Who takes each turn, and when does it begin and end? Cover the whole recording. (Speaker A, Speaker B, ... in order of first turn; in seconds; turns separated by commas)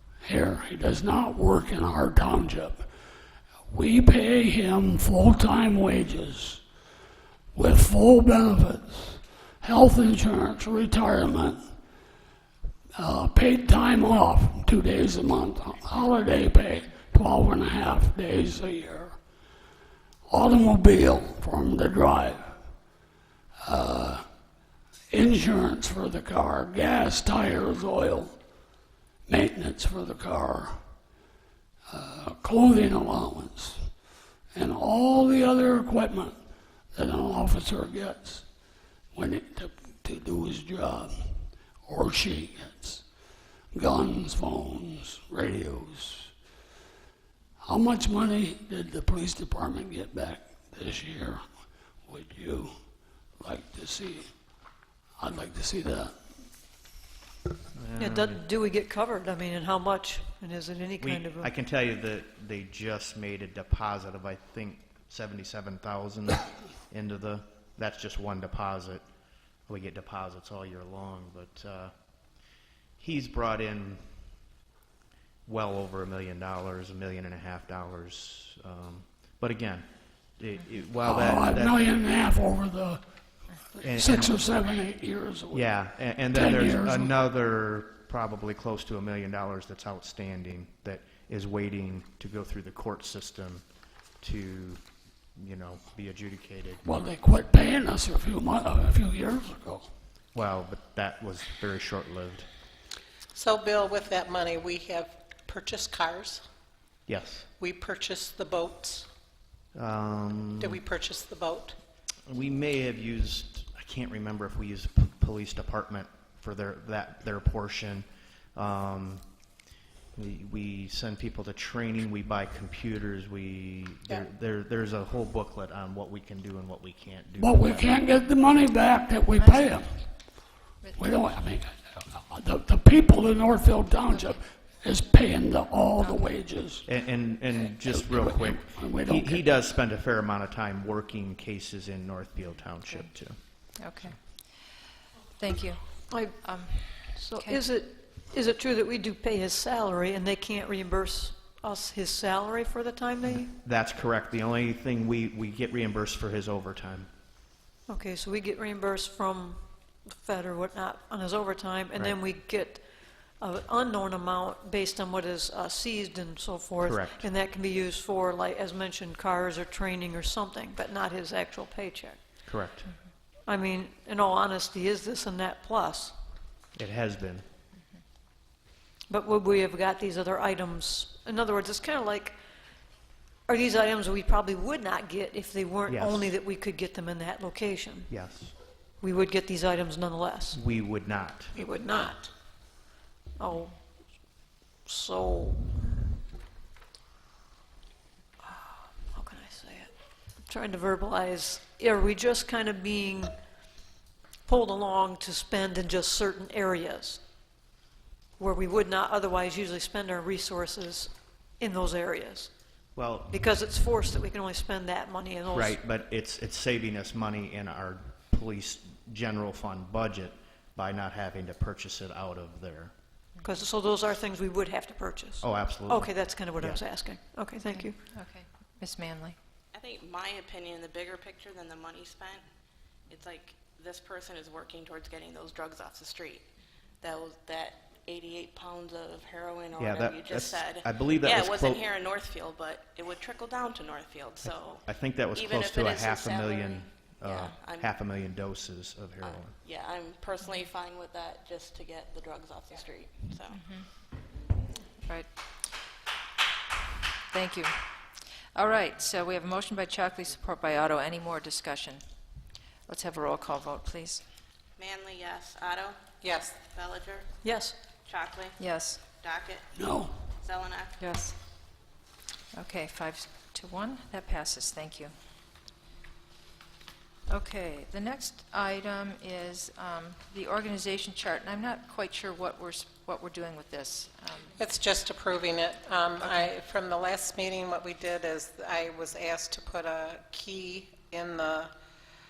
Speaker A: 0.2-2.9, Speaker A: 3.7-6.6, Speaker A: 7.5-11.8, Speaker A: 12.9-19.2, Speaker A: 20.3-22.6, Speaker A: 23.6-24.2, Speaker A: 25.1-28.4, Speaker A: 29.3-30.8, Speaker A: 31.9-34.0, Speaker A: 34.5-36.4, Speaker A: 36.9-43.1, Speaker A: 43.7-46.3, Speaker A: 47.6-51.4, Speaker A: 52.0-54.6, Speaker A: 55.2-56.2, Speaker B: 57.7-58.4, Speaker C: 58.0-61.5, Speaker B: 61.0-69.0, Speaker B: 69.7-71.9, Speaker B: 73.0-74.3, Speaker B: 75.5-79.9, Speaker B: 80.4-81.8, Speaker A: 81.0-83.0, Speaker A: 83.7-87.1, Speaker B: 83.8-84.5, Speaker B: 85.5-93.6, Speaker B: 94.2-94.8, Speaker B: 95.4-96.8, Speaker A: 96.8-99.9, Speaker B: 100.3-102.5, Speaker D: 103.3-106.4, Speaker B: 107.1-107.5, Speaker D: 107.6-109.1, Speaker B: 109.8-110.8, Speaker D: 110.6-111.8, Speaker B: 112.2-119.2, Speaker B: 120.1-128.0, Speaker A: 127.4-130.1, Speaker E: 129.4-130.1, Speaker E: 130.8-131.2, Speaker A: 130.9-136.9, Speaker E: 134.0-134.4, Speaker E: 136.0-136.3, Speaker B: 136.8-143.4, Speaker A: 137.7-139.5, Speaker E: 142.5-143.1, Speaker E: 143.8-144.2, Speaker E: 145.4-147.6, Speaker C: 146.1-146.4, Speaker C: 147.1-153.5, Speaker B: 153.3-157.1, Speaker C: 157.9-162.8, Speaker C: 163.4-172.2, Speaker B: 166.8-167.3, Speaker B: 172.5-172.9, Speaker C: 173.5-176.2, Speaker B: 176.8-177.4, Speaker C: 179.1-182.4, Speaker C: 183.5-188.1, Speaker B: 185.9-186.3, Speaker B: 188.1-188.5, Speaker C: 189.0-190.6, Speaker B: 190.5-191.6, Speaker C: 191.6-192.2, Speaker C: 193.4-193.8, Speaker C: 194.8-195.9, Speaker C: 198.4-199.9, Speaker C: 200.5-203.3, Speaker C: 204.5-207.2, Speaker C: 208.4-212.5, Speaker B: 213.0-213.3, Speaker C: 213.3-215.8, Speaker B: 215.5-222.9, Speaker C: 223.4-228.0, Speaker B: 225.4-226.8, Speaker E: 227.6-229.3, Speaker F: 229.7-232.4, Speaker F: 233.1-236.4, Speaker F: 237.0-247.9, Speaker B: 239.8-241.8, Speaker B: 244.4-249.6, Speaker F: 249.2-253.6, Speaker E: 253.5-253.9, Speaker E: 255.0-255.3, Speaker E: 257.3-257.9, Speaker E: 258.5-262.0, Speaker E: 262.9-264.2, Speaker F: 264.8-267.3, Speaker C: 267.4-267.8, Speaker F: 268.1-268.6, Speaker E: 268.6-269.0, Speaker F: 269.1-271.0, Speaker A: 269.8-270.2, Speaker E: 271.0-271.4, Speaker E: 272.5-275.1, Speaker E: 277.3-284.6, Speaker D: 284.6-291.7, Speaker E: 286.2-286.5